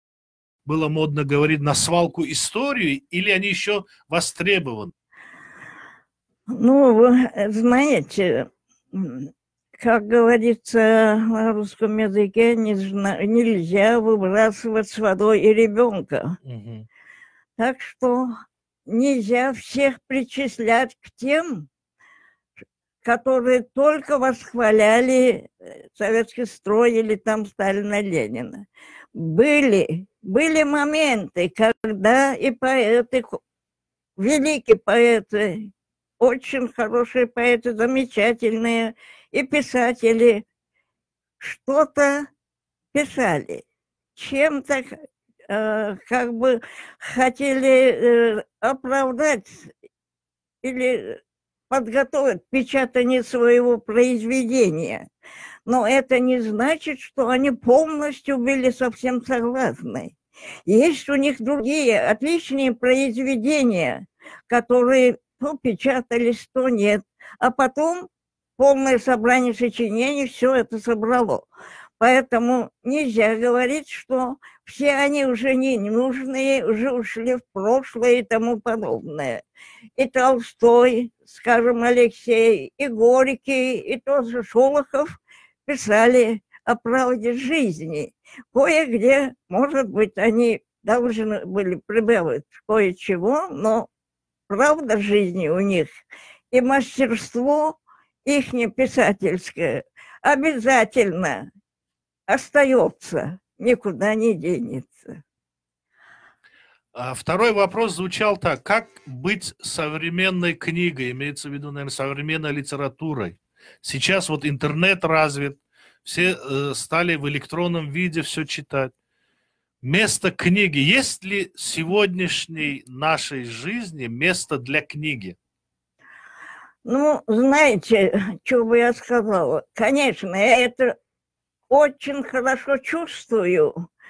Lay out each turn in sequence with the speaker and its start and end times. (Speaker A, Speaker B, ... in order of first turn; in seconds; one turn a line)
Speaker A: 0.7-4.9
Speaker B: 6.5-16.4
Speaker A: 16.4-16.9
Speaker B: 17.6-18.4
Speaker B: 18.9-21.7
Speaker B: 23.0-33.4
Speaker B: 34.2-40.5
Speaker B: 41.4-42.3
Speaker B: 42.9-43.6
Speaker B: 44.2-49.7
Speaker B: 50.6-55.1
Speaker B: 55.7-60.1
Speaker B: 60.7-68.1
Speaker B: 68.6-71.5
Speaker B: 72.0-79.4
Speaker B: 80.0-85.1
Speaker B: 85.7-93.9
Speaker B: 94.5-95.9
Speaker B: 96.5-101.5
Speaker B: 102.3-105.2
Speaker A: 107.0-118.9
Speaker A: 119.8-125.4
Speaker B: 126.8-130.9
Speaker B: 131.7-133.7